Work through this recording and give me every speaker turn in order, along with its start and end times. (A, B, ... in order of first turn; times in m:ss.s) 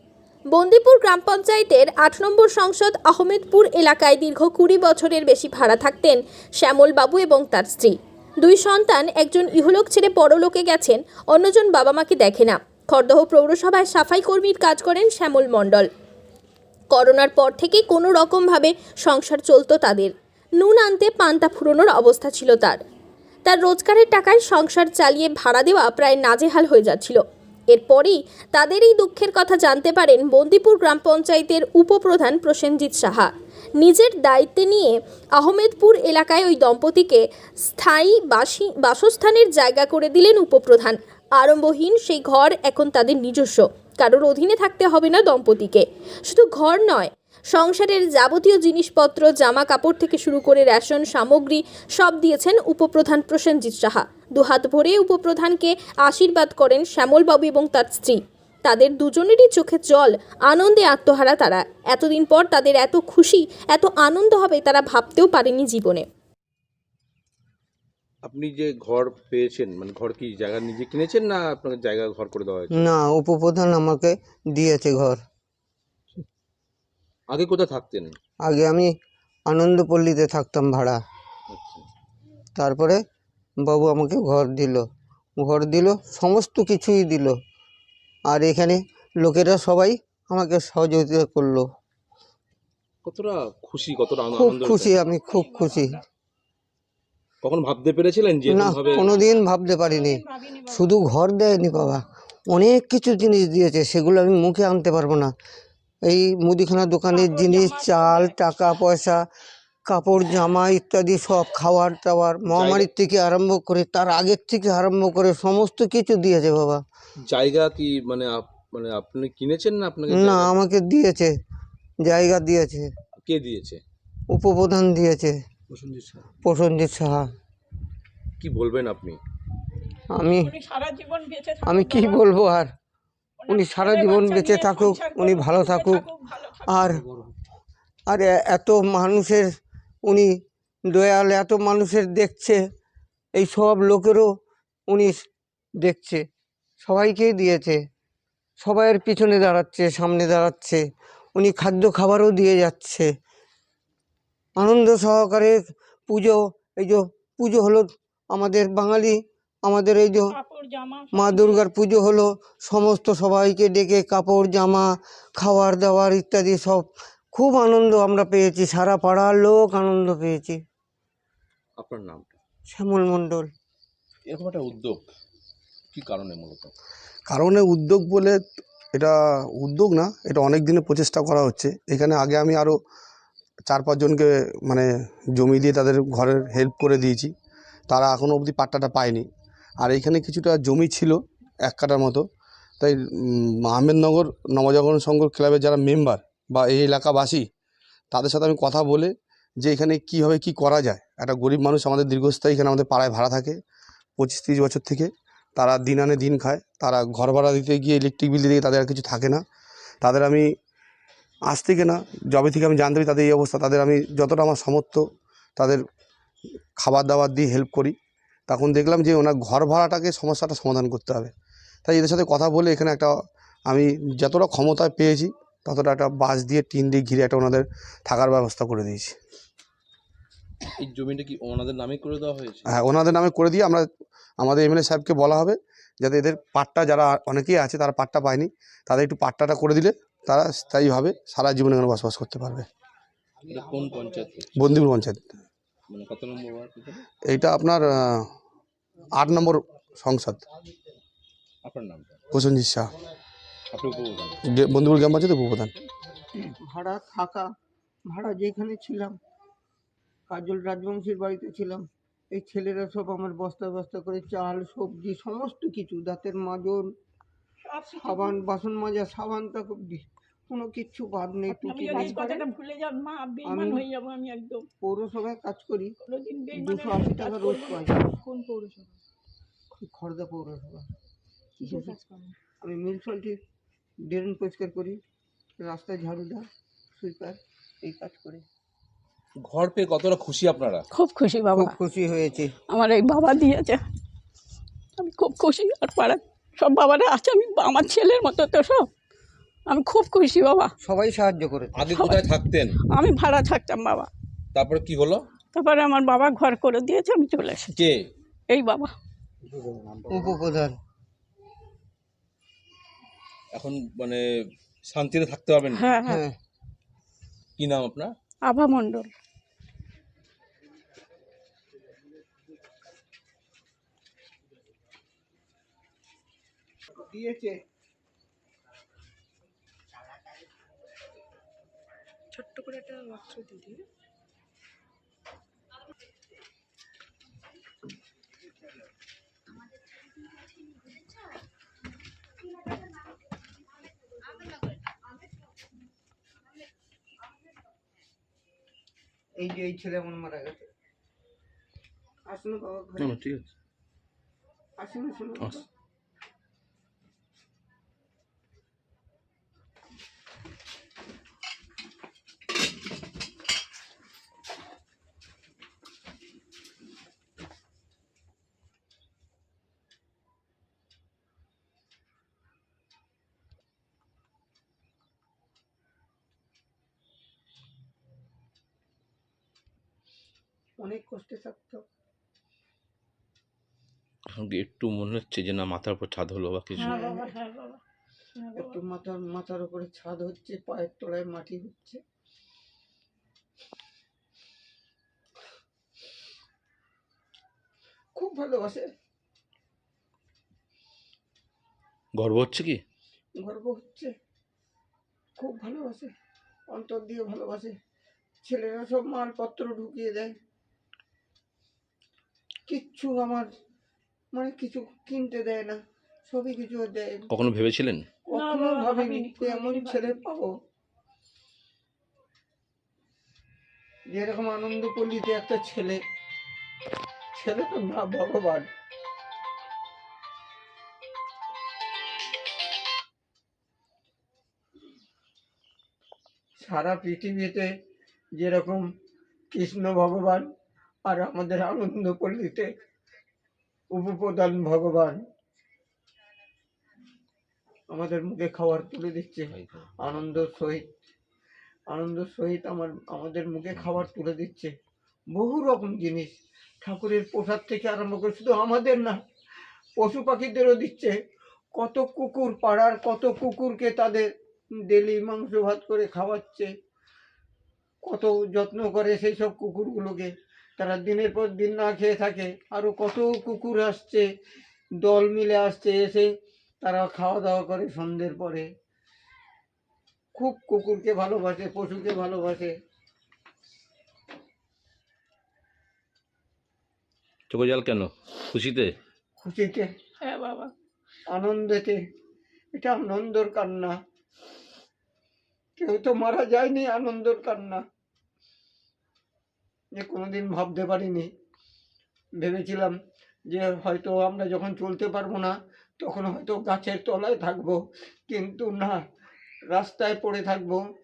0:00.5-0:15.9 A
0:16.9-0:22.8 A
0:23.4-0:27.2 A
0:27.7-1:06.0 A
1:08.2-1:12.9 B
1:12.7-1:15.2 C
1:17.3-1:18.2 B
1:18.4-1:18.9 C
1:19.5-1:21.0 C
1:21.5-1:21.8 B
1:22.6-1:23.0 C
1:23.6-1:24.8 C
1:25.4-1:27.4 C
1:28.3-1:31.7 C
1:33.0-1:34.9 B
1:34.3-1:36.0 C
1:35.0-1:36.0 D
1:37.4-1:39.2 B
1:38.4-1:45.3 C
1:38.9-1:39.2 D
1:39.8-1:40.9 D
1:46.0-1:49.2 C
1:47.1-1:48.4 D
1:49.9-1:56.8 C
1:52.5-1:52.9 B
1:57.2-2:00.6 B
2:00.1-2:01.3 C
2:02.0-2:02.9 C
2:03.2-2:03.8 B
2:04.3-2:05.4 C
2:06.4-2:07.3 C
2:08.4-2:09.2 B
2:10.1-2:10.5 C
2:10.3-2:12.2 D
2:11.6-2:12.7 C
2:13.4-2:16.9 D
2:13.5-2:16.0 C
2:16.6-2:17.0 C
2:18.1-2:19.5 C
2:20.9-2:22.6 C
2:23.4-2:24.3 C
2:24.9-2:25.2 C
2:25.8-2:26.2 C
2:26.8-2:27.8 C
2:28.6-2:30.8 C
2:31.3-2:33.1 C
2:34.6-2:40.4 C
2:40.3-2:41.6 D
2:41.1-2:50.6 C
2:51.8-2:52.4 B
2:52.7-2:53.5 C
2:54.3-2:55.0 B
2:55.9-2:56.7 B
2:57.3-2:58.4 E
2:58.9-3:02.8 E
3:03.7-3:07.3 E
3:07.9-3:09.3 E
3:09.8-3:12.2 E
3:12.8-3:17.5 E
3:18.1-3:23.6 E
3:24.2-3:29.4 E
3:30.0-3:30.5 E
3:31.5-3:35.8 E
3:36.8-3:41.3 E
3:41.8-3:49.2 E
3:50.8-3:52.7 B
3:52.7-3:53.8 E
3:54.4-4:02.7 E
4:03.4-4:04.7 B
4:04.6-4:05.4 E
4:05.9-4:07.0 B
4:07.2-4:08.3 E
4:09.2-4:10.4 E
4:11.6-4:12.2 B
4:12.3-4:12.9 E
4:13.7-4:14.4 B
4:14.4-4:15.7 E
4:16.3-4:17.5 C
4:18.1-4:19.2 C
4:20.3-4:26.8 C
4:27.7-4:28.4 D
4:27.9-4:32.5 C
4:31.5-4:34.7 D
4:33.4-4:33.8 C
4:34.8-4:35.9 C
4:36.0-4:37.8 D
4:36.5-4:38.0 C
4:39.7-4:40.9 C
4:41.6-4:42.0 C
4:42.6-4:43.4 C
4:44.1-4:45.0 C
4:45.6-4:46.4 C
4:47.0-4:48.4 C
4:49.4-4:50.8 B
4:50.9-4:51.8 D
4:51.5-4:52.5 C
4:52.7-4:53.8 D
4:55.0-4:58.9 D
4:59.7-5:00.7 D
5:00.8-5:01.8 C
5:01.8-5:02.7 B
5:01.9-5:02.2 D
5:02.9-5:04.1 D
5:04.5-5:05.2 B
5:05.5-5:07.7 D
5:07.7-5:08.1 B
5:08.5-5:08.9 D
5:10.1-5:10.8 C
5:13.5-5:14.2 B
5:14.8-5:16.0 B
5:15.7-5:16.2 D
5:16.0-5:16.3 C
5:17.6-5:18.1 B
5:18.5-5:19.1 D
5:27.0-5:27.5 C
5:49.4-5:50.6 C
5:52.3-5:53.2 C
5:53.0-5:53.5 B
5:54.8-5:55.6 C
6:20.8-6:21.8 C
6:24.4-6:27.0 B
6:26.8-6:27.3 C
6:26.8-6:27.8 D
6:28.4-6:28.8 D
6:28.6-6:32.0 C
6:38.2-6:38.8 C
6:42.1-6:42.8 B
6:43.4-6:44.1 C
6:45.4-6:46.1 C
6:46.7-6:47.7 C
6:48.4-6:50.3 C
6:52.7-6:53.5 C
6:54.3-6:57.3 C
6:57.3-6:58.0 B
6:58.3-7:00.5 C
6:58.3-7:00.2 D
7:04.1-7:06.0 C
7:07.3-7:08.6 C
7:16.6-7:17.7 C
7:18.4-7:18.8 C
7:19.5-7:20.4 C
7:21.0-7:22.7 C
7:23.9-7:25.2 C
7:27.9-7:30.9 C
7:29.5-7:30.4 B
7:31.9-7:34.7 C
7:35.3-7:36.3 C
7:36.8-7:39.2 C
7:40.0-7:41.1 C
7:41.8-7:44.3 C
7:44.8-7:46.7 C
7:48.0-7:54.2 C
7:55.0-7:56.3 C
7:56.8-7:58.7 C
8:00.3-8:02.7 C
8:07.5-8:08.9 B
8:09.4-8:09.9 C
8:10.2-8:10.7 D
8:11.3-8:12.0 C
8:12.8-8:14.0 C
8:15.8-8:17.8 C
8:20.0-8:21.3 C
8:22.4-8:22.9 C
8:23.5-8:27.8 C
8:28.3-8:29.0 C
8:29.7-8:30.8 C